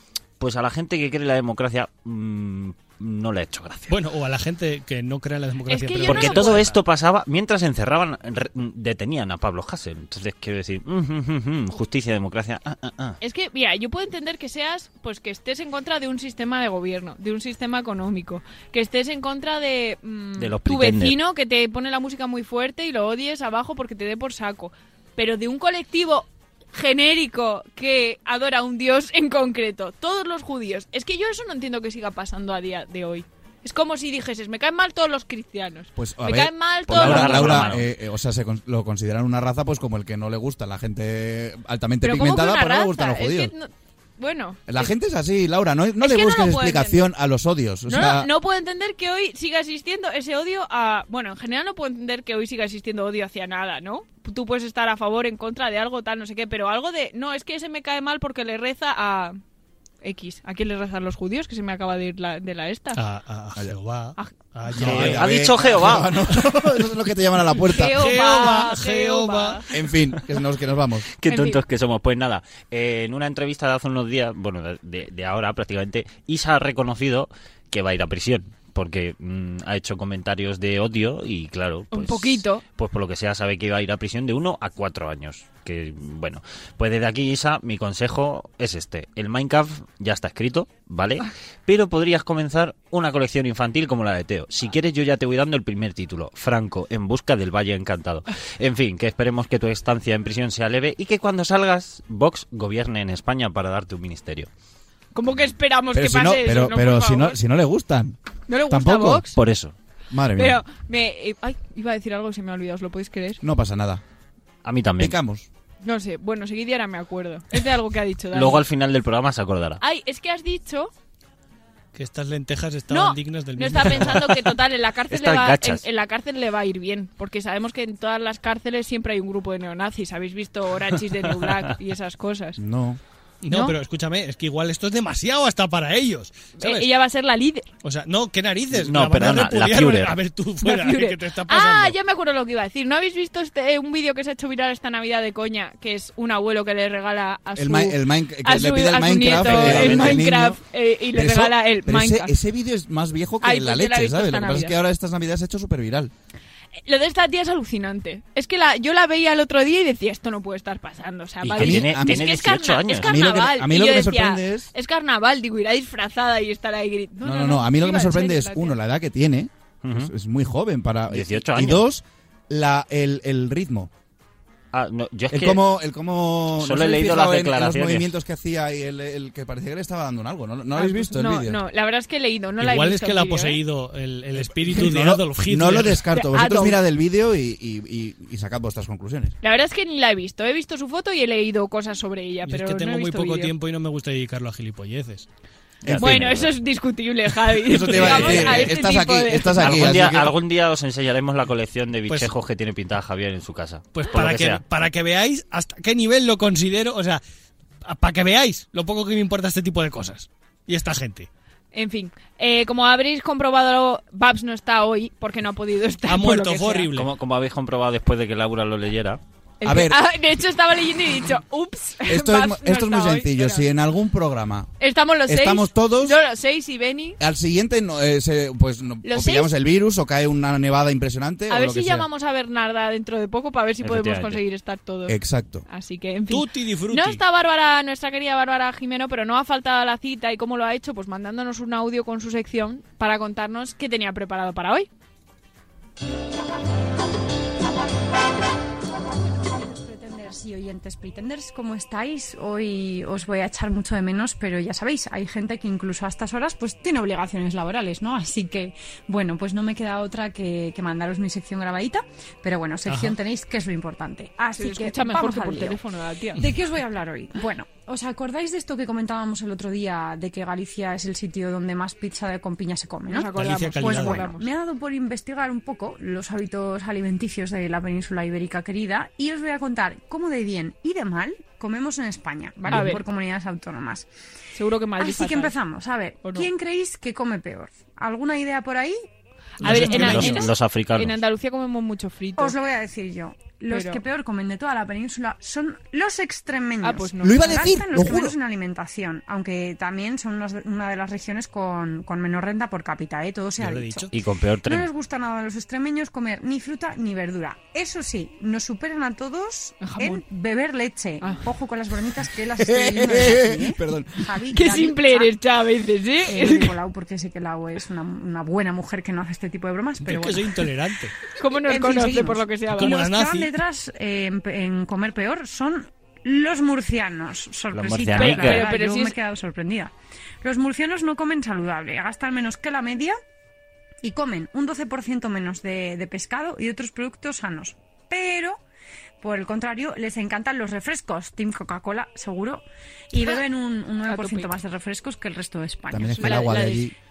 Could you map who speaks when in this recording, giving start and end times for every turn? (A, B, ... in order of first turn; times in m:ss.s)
0:00.4-0:03.9 A
0:03.9-0:06.8 B
0:05.7-0:06.7 C
0:06.1-0:13.2 A
0:13.2-0:37.8 C
0:20.4-0:21.2 A
0:36.0-0:43.5 D
0:36.9-0:37.8 A
0:42.0-0:44.9 C
0:44.7-0:48.3 D
0:46.0-0:47.0 C
0:47.9-0:59.4 C
1:00.0-1:03.0 C
1:03.0-1:06.0 B
1:04.2-1:04.8 C
1:04.8-1:08.1 D
1:04.8-1:06.1 A
1:07.6-1:09.7 C
1:08.0-1:09.6 B
1:09.7-1:11.1 D
1:11.2-1:44.5 A
1:11.3-1:11.6 C
1:21.9-1:22.6 C
1:45.1-1:47.4 C
1:45.9-1:48.2 D
1:48.5-1:49.3 C
1:48.7-1:49.3 D
1:49.3-1:49.7 A
1:50.1-1:50.6 D
1:50.4-1:53.4 C
1:53.4-1:54.0 D
1:54.6-1:55.2 A
1:55.0-1:55.5 D
1:55.8-1:58.6 C
1:58.3-1:59.8 A
1:59.8-2:00.9 C
2:01.9-2:04.4 B
2:02.9-2:12.6 C
2:05.1-2:05.8 A
2:12.6-2:13.0 D
2:13.4-2:16.9 B
2:13.5-2:13.8 C
2:16.6-2:17.7 C
2:17.8-2:22.0 B
2:18.7-2:20.2 A
2:20.6-2:32.3 C
2:27.6-2:30.6 D
2:29.3-2:30.3 A
2:31.1-2:36.1 D
2:33.4-2:34.7 C
2:36.8-2:48.7 C
2:41.4-2:43.3 A
2:41.6-2:42.3 D
2:42.9-2:44.7 D
2:47.2-2:53.9 D
2:49.8-2:50.1 A
2:51.1-2:51.8 A
2:54.7-2:55.6 A
2:55.3-3:01.6 D
2:56.6-2:58.1 A
3:00.8-3:03.6 C
3:02.6-3:06.0 B
3:04.6-3:09.4 D
3:06.1-3:06.8 C
3:09.4-3:13.5 C
3:12.4-3:15.3 B
3:15.8-3:16.5 D
3:15.8-3:16.5 A
3:16.0-3:19.7 C
3:17.6-3:20.4 D
3:17.8-3:18.7 B
3:19.6-3:24.6 A
3:22.1-3:22.3 B
3:23.9-3:27.2 B
3:27.8-3:31.3 B
3:31.7-3:36.9 C
3:36.1-3:37.1 B
3:36.9-3:39.2 A
3:39.6-3:43.6 C
3:39.6-3:40.0 D
3:42.1-3:44.7 D
3:44.8-3:47.2 C
3:45.2-3:46.2 D
3:47.2-3:52.1 D
3:49.0-3:49.5 C
3:51.5-3:55.2 C
3:53.8-3:54.4 A
3:55.1-3:55.6 D
3:55.7-4:04.9 C
3:56.3-3:57.2 B
4:09.4-4:25.8 E
4:22.8-4:23.2 B
4:24.6-4:26.4 C
4:26.4-4:44.1 E
4:33.1-4:34.5 C
4:33.3-4:34.3 B
4:42.7-4:43.0 C
4:44.6-4:45.5 C
4:45.0-4:49.0 E
4:46.2-4:46.5 C
4:49.6-4:50.3 B
4:49.6-4:52.6 C
4:49.7-4:50.5 E
4:49.7-4:51.2 A
4:52.4-5:04.1 E
4:53.7-4:54.0 C
4:56.8-4:57.7 C
4:57.2-4:58.3 D
5:03.6-5:04.1 B
5:04.1-5:04.9 A
5:04.6-5:15.4 E
5:09.8-5:10.2 C
5:11.2-5:11.5 C
5:12.6-5:14.3 D
5:14.5-5:16.8 C
5:16.2-5:20.7 E
5:20.0-5:21.1 B
5:21.3-5:23.0 C
5:21.6-5:33.2 E
5:22.7-5:23.5 B
5:27.7-5:28.7 A
5:28.1-5:29.2 C
5:34.0-5:38.6 E
5:39.2-5:46.8 E
5:44.1-5:44.5 C
5:45.9-5:46.9 D
5:46.2-5:46.9 C